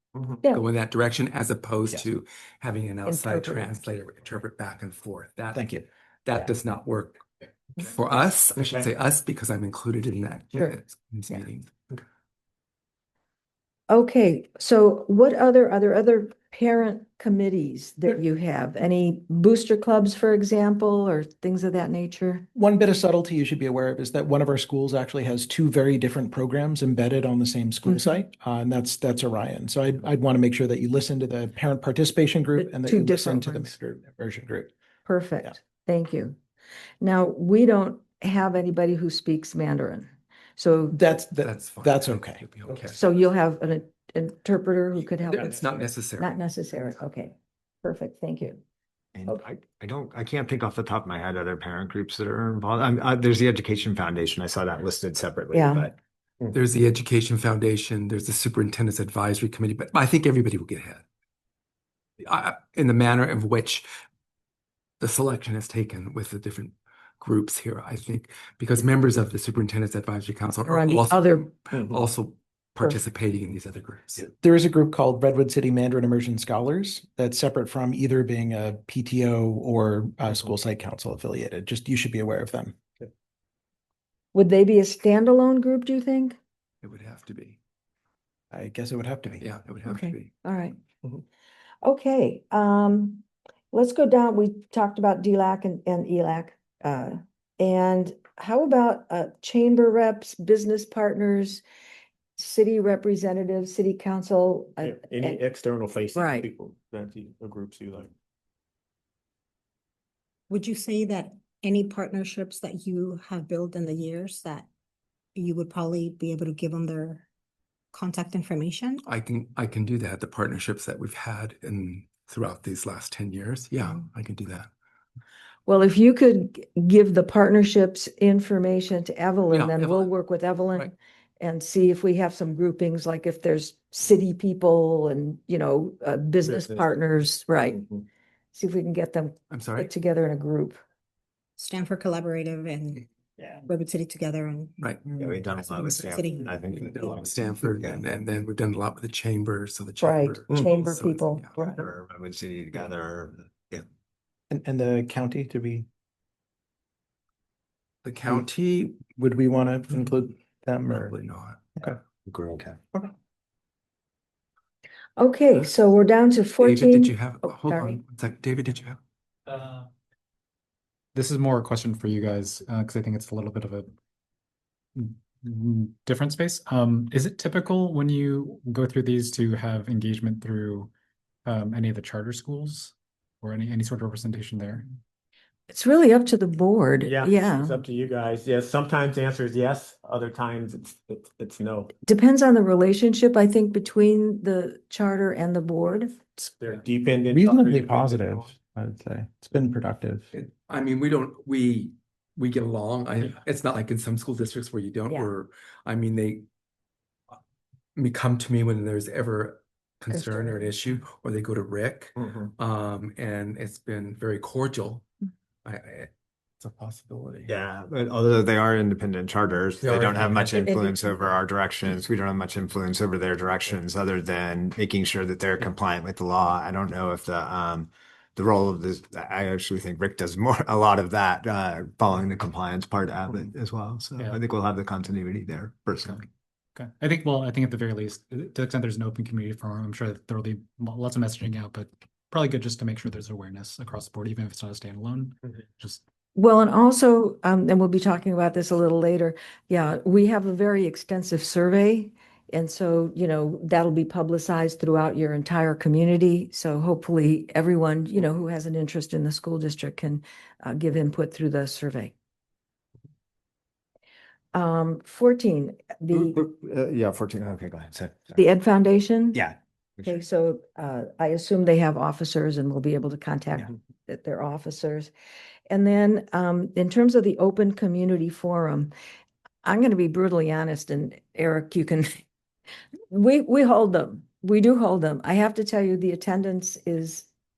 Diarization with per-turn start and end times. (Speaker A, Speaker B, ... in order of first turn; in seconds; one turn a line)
Speaker A: 0.4-7.2
Speaker B: 3.0-3.7
Speaker C: 5.5-5.8
Speaker A: 7.8-11.9
Speaker B: 13.9-22.4
Speaker C: 22.5-34.7
Speaker B: 32.5-33.7
Speaker B: 35.0-36.4
Speaker B: 37.0-41.0
Speaker C: 40.9-42.4
Speaker A: 41.4-43.0
Speaker B: 42.9-48.6
Speaker A: 45.2-46.3
Speaker D: 49.1-56.0
Speaker B: 55.5-55.9
Speaker A: 56.5-61.0
Speaker A: 62.2-63.9
Speaker A: 65.0-74.3
Speaker B: 70.7-71.5
Speaker E: 71.7-72.0
Speaker C: 74.2-82.8
Speaker B: 84.3-86.4
Speaker A: 86.8-87.6
Speaker C: 88.5-89.5
Speaker A: 89.3-90.3
Speaker B: 89.8-90.8
Speaker B: 91.8-101.6
Speaker B: 102.4-105.4
Speaker E: 104.8-108.1
Speaker B: 106.1-106.5
Speaker F: 110.5-114.7
Speaker F: 115.3-117.2
Speaker F: 117.9-119.0
Speaker A: 119.0-124.7
Speaker B: 125.7-137.8
Speaker A: 129.5-130.1
Speaker E: 136.4-136.9
Speaker B: 138.5-140.8
Speaker A: 139.5-139.9
Speaker F: 141.6-143.1
Speaker F: 143.7-146.5
Speaker A: 144.8-145.1
Speaker D: 145.2-148.0
Speaker A: 146.7-151.5
Speaker B: 150.0-151.8
Speaker D: 151.6-153.8
Speaker C: 154.5-155.9
Speaker A: 158.0-159.0
Speaker C: 159.0-161.1
Speaker A: 160.9-161.6
Speaker D: 162.2-162.8
Speaker B: 165.2-168.0
Speaker A: 166.6-169.0
Speaker G: 169.5-169.8
Speaker G: 171.1-173.9
Speaker G: 174.9-180.9
Speaker G: 181.4-184.9
Speaker B: 185.7-187.8
Speaker E: 187.0-191.9
Speaker B: 192.1-196.2
Speaker E: 196.3-198.5
Speaker C: 197.3-200.3
Speaker A: 200.3-206.4
Speaker A: 207.9-215.1
Speaker B: 210.1-210.7
Speaker A: 215.6-217.6
Speaker D: 217.5-236.3
Speaker A: 219.8-220.7
Speaker B: 220.5-221.1
Speaker G: 236.7-246.0
Speaker B: 246.3-262.1
Speaker B: 264.5-266.4
Speaker D: 266.1-268.4
Speaker B: 268.3-269.4
Speaker D: 269.3-270.1
Speaker B: 270.0-275.1
Speaker B: 275.7-278.9
Speaker B: 279.6-282.2
Speaker B: 283.1-287.3